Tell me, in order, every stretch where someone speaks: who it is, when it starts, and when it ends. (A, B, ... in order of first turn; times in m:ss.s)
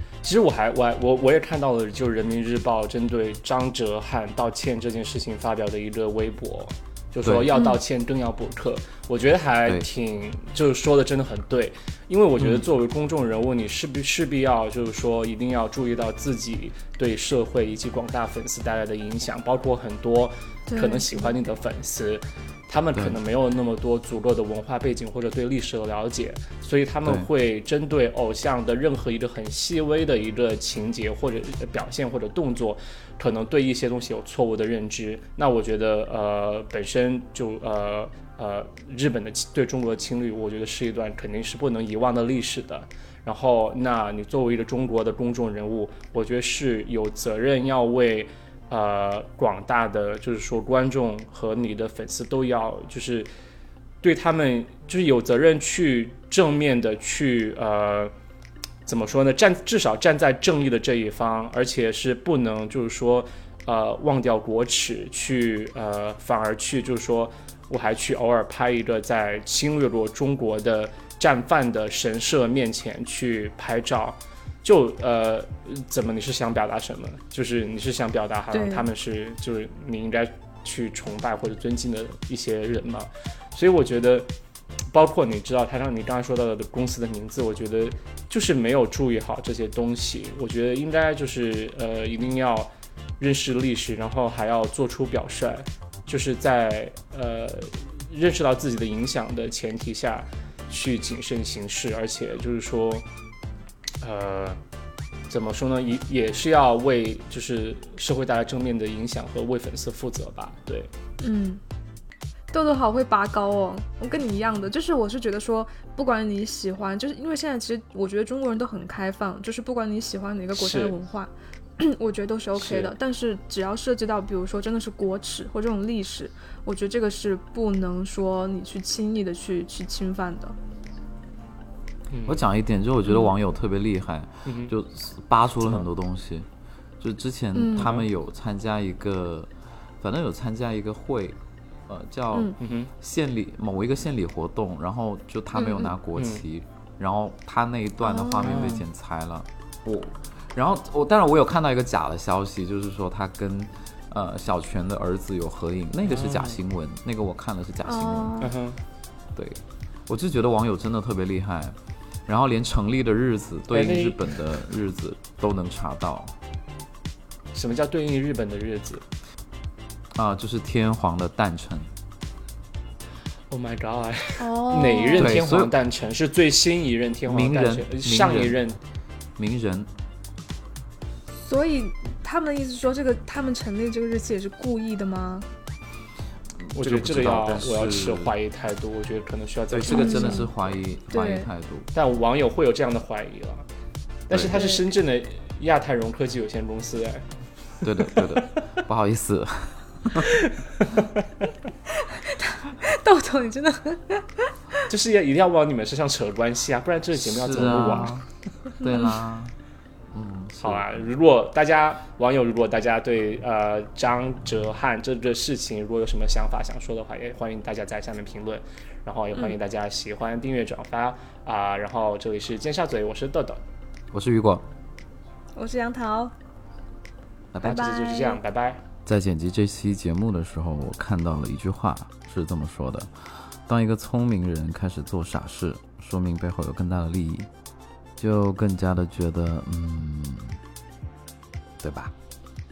0:00.2-0:53.3 A
0:07.5-0:07.8 B
0:20.7-0:21.4 B
0:22.9-0:23.2 C
0:54.0-0:58.1 A
0:58.8-1:24.3 A
1:18.5-1:18.9 B
1:24.9-1:43.0 A
1:44.0-1:44.6 A
1:45.3-1:50.9 A
1:51.2-1:51.6 B
1:52.5-2:10.6 B
2:00.5-2:01.0 A
2:02.5-2:02.9 A
2:12.1-2:12.4 A
2:12.3-2:16.5 C
2:13.0-2:13.3 B
2:14.4-2:14.7 A
2:17.0-2:19.5 C
2:17.5-2:18.0 B
2:17.8-2:18.1 A
2:20.0-2:21.4 C
2:21.9-2:38.4 C
2:22.6-2:22.9 A
2:25.5-2:25.9 B
2:26.1-2:26.4 A
2:28.0-2:28.8 B
2:28.4-2:28.8 A
2:36.0-2:36.6 A
2:37.8-2:38.5 B
2:38.4-2:38.8 A
2:39.3-2:41.8 C
2:42.3-2:46.3 C
2:43.7-2:44.2 A
2:47.5-2:49.0 A
2:50.1-2:51.9 C
2:53.5-2:58.8 A
2:54.4-2:55.4 B
2:55.2-2:55.7 C
2:57.3-2:58.6 C
2:59.4-2:59.9 C
3:01.3-3:05.5 B
3:06.7-3:08.3 C
3:06.7-3:10.7 A
3:09.7-3:11.9 C
3:09.9-3:10.5 B
3:11.1-3:11.5 B
3:11.9-3:13.6 A
3:14.3-3:17.2 A
3:14.3-3:14.6 C
3:14.5-3:14.8 B
3:17.8-3:20.3 C
3:18.0-3:18.6 A
3:20.2-3:21.1 A
3:22.0-3:24.5 B
3:24.9-3:28.1 A
3:27.2-3:28.2 C
3:28.8-3:29.5 C
3:30.1-3:31.1 C
3:30.6-3:43.6 A
3:44.1-3:44.6 C
3:45.5-3:46.3 B
3:47.5-3:47.8 C
3:47.6-3:48.4 B
3:47.6-3:48.8 A
3:49.0-3:57.5 C
3:58.2-4:00.6 C
4:01.8-4:02.1 C